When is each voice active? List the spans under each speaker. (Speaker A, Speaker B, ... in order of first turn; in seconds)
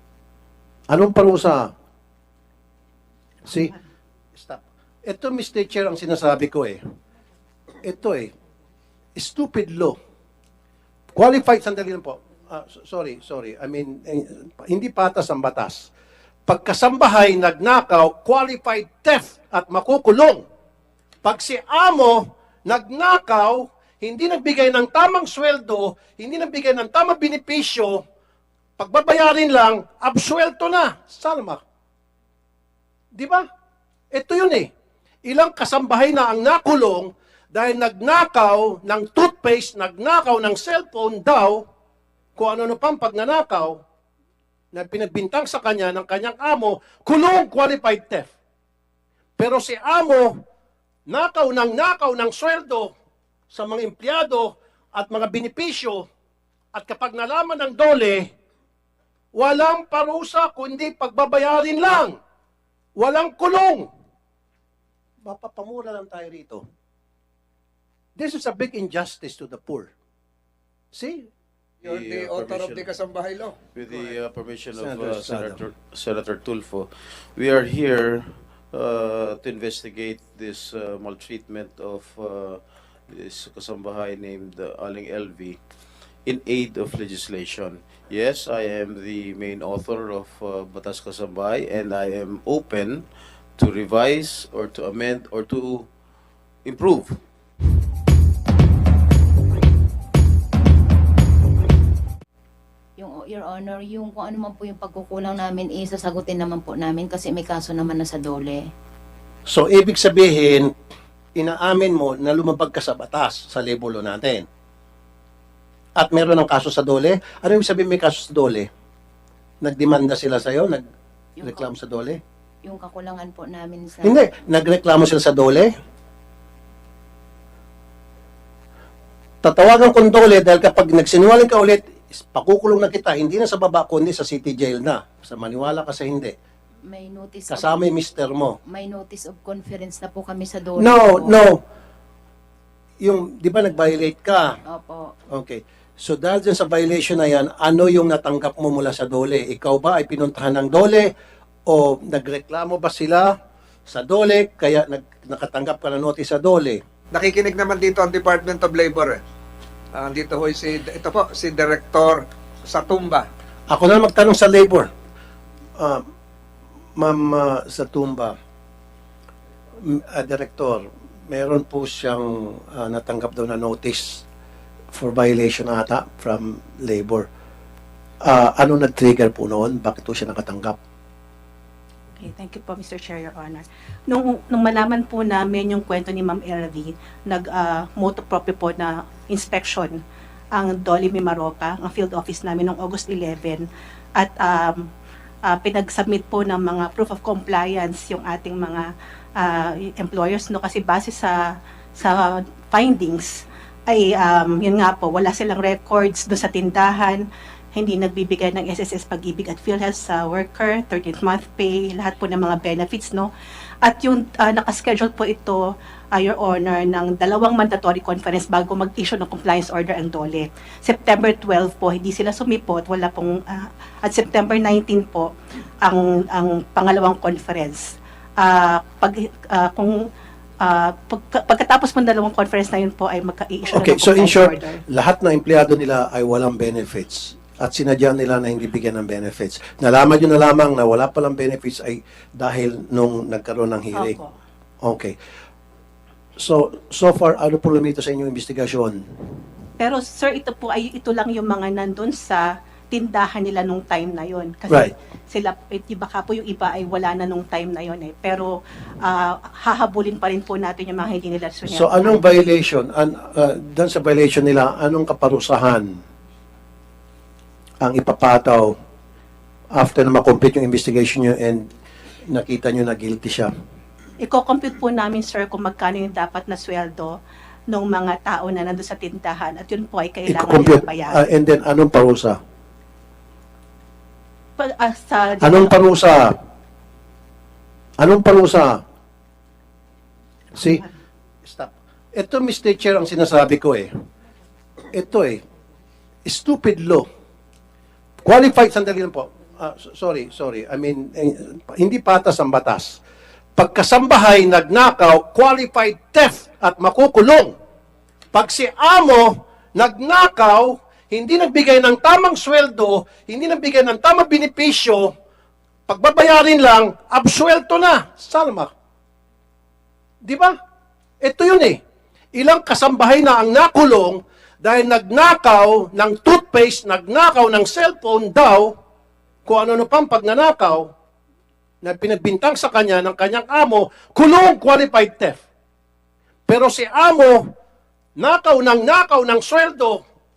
Speaker A: 0.9-1.7, 3.5-3.7, 4.3-6.8, 7.8-8.3, 9.2-10.0, 11.1-15.9, 16.5-20.4, 21.2-28.0, 28.8-31.6, 33.1-33.4, 34.1-34.7, 35.2-41.6, 42.4-43.8, 44.7-48.3, 49.4-50.3, 51.1-52.9, 53.5-56.0, 56.7-58.3, 59.3-62.2, 63.0-63.9, 65.2-66.6, 68.2-69.9, 70.9-71.3, 74.8-75.6, 109.5-110.7, 111.4-114.5, 116.0-118.7, 119.6-120.8, 121.4-122.2, 124.0-125.7, 129.4-136.3, 137.5-138.6, 140.8-141.6, 143.0-144.5, 145.3-151.1, 151.7-153.3, 153.9-156.8, 163.7-164.9, 167.0-168.3, 169.8-174.2, 174.9-177.3, 178.2-180.8, 233.7-244.2, 244.8-245.2, 246.4-249.0, 261.7-265.9, 267.8-268.7, 269.8-271.7, 272.3-273.5, 280.3-282.4, 285.4-286.3, 288.0-288.8, 290.6-290.9, 291.4-293.9, 294.9-295.4, 296.2-297.1, 298.2-303.0, 303.6-307.5, 308.3-315.1, 315.9-318.7, 320.2-320.5, 321.2-321.8, 322.3-328.7, 329.4-330.9, 331.8-335.4, 336.5-337.4, 338.2-340.0
Speaker B: 71.8-74.1, 157.1-159.2, 159.9-163.3
Speaker C: 71.8-73.0, 73.7-85.6, 86.2-95.9, 96.6-97.2
Speaker D: 103.0-108.7, 121.4-121.7, 122.6-124.2, 136.9-137.8, 138.7-141.4, 144.7-145.1
Speaker E: 182.2-190.0, 190.5-194.9, 195.4-207.2, 207.8-213.3, 213.8-215.6, 216.1-225.3, 225.8-230.0, 230.6-234.8, 243.9-244.3, 249.8-262.2, 274.2-277.1, 277.7-281.2, 284.6-285.8